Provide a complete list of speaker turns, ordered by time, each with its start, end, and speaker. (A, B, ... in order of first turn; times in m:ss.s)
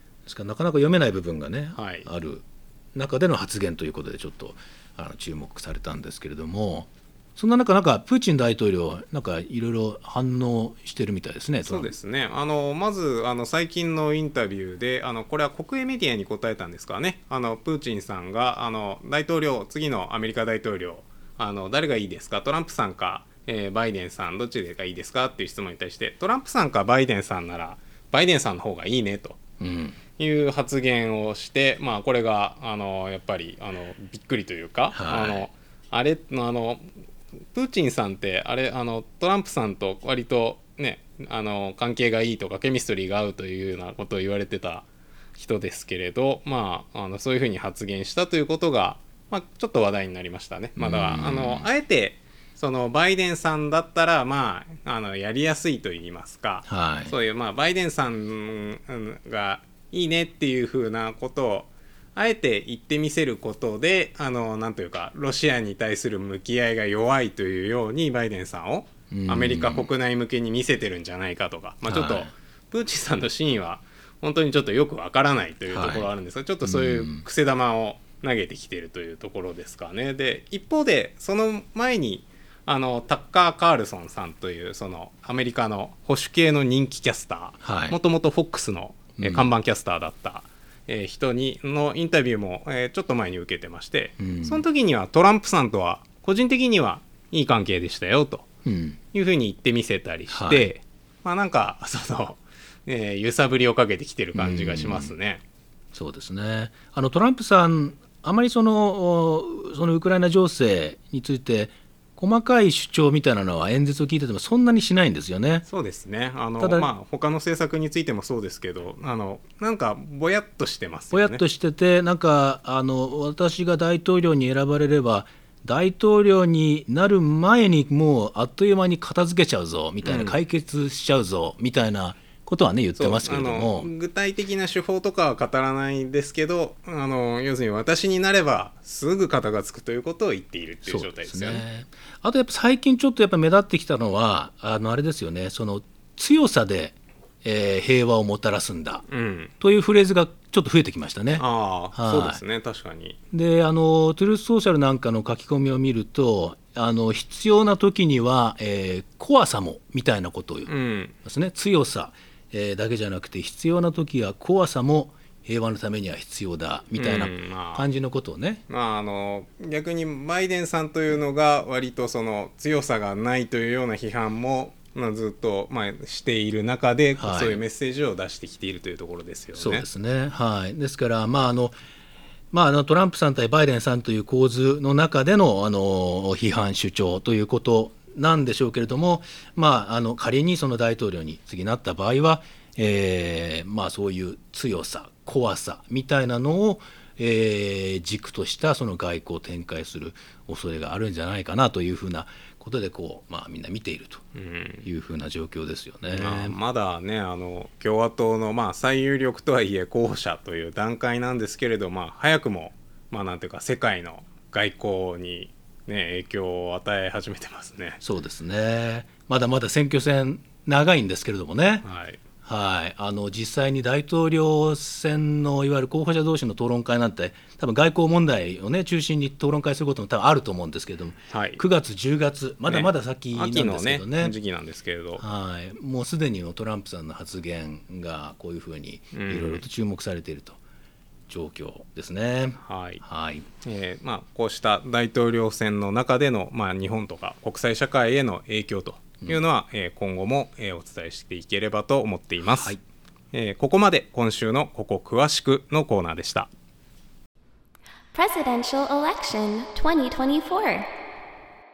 0:00.3-0:11.9 A
0:01.8-0:02.1 B
0:11.6-0:29.4 B
0:29.6-0:30.0 A
0:30.2-0:37.0 B
0:34.9-0:35.5 A
0:37.5-1:38.5 B
0:50.8-0:51.7 A
0:56.7-0:57.1 A
1:09.1-1:09.9 A
1:11.9-1:12.3 A
1:15.7-1:16.1 A
1:16.6-1:17.2 A
1:27.6-1:28.0 A
1:29.2-1:29.5 A
1:34.2-1:34.6 A
1:38.6-1:39.0 A
1:39.1-1:45.4 B
1:40.3-1:40.7 A
1:44.4-1:45.1 A
1:45.9-1:55.7 A
1:55.7-2:01.4 B
1:56.6-1:56.9 A
2:01.1-2:13.9 A
2:10.0-2:10.4 B
2:13.0-2:21.6 B
2:20.9-2:29.0 A
2:29.1-2:29.5 B
2:29.6-2:32.4 A
2:31.4-2:33.2 B
2:33.3-2:40.7 A
2:40.7-2:41.2 B
2:41.2-2:48.6 A
2:47.0-2:47.8 B
2:48.7-2:59.9 B
2:57.2-2:57.6 A
2:59.6-3:01.8 A
3:02.5-3:24.2 A
3:24.4-3:24.9 B
3:24.8-3:26.6 A
3:26.1-3:38.0 B
3:38.0-3:41.8 A
3:41.8-3:42.2 B
3:42.4-3:54.4 A
3:51.3-3:51.6 B
3:52.7-3:55.2 B
3:55.2-4:00.6 A
3:59.1-3:59.6 B
4:01.3-4:03.5 A
4:02.6-4:03.0 B
4:03.6-4:12.8 B
4:12.4-4:12.8 A
4:13.3-4:16.5 B
4:18.1-4:20.9 C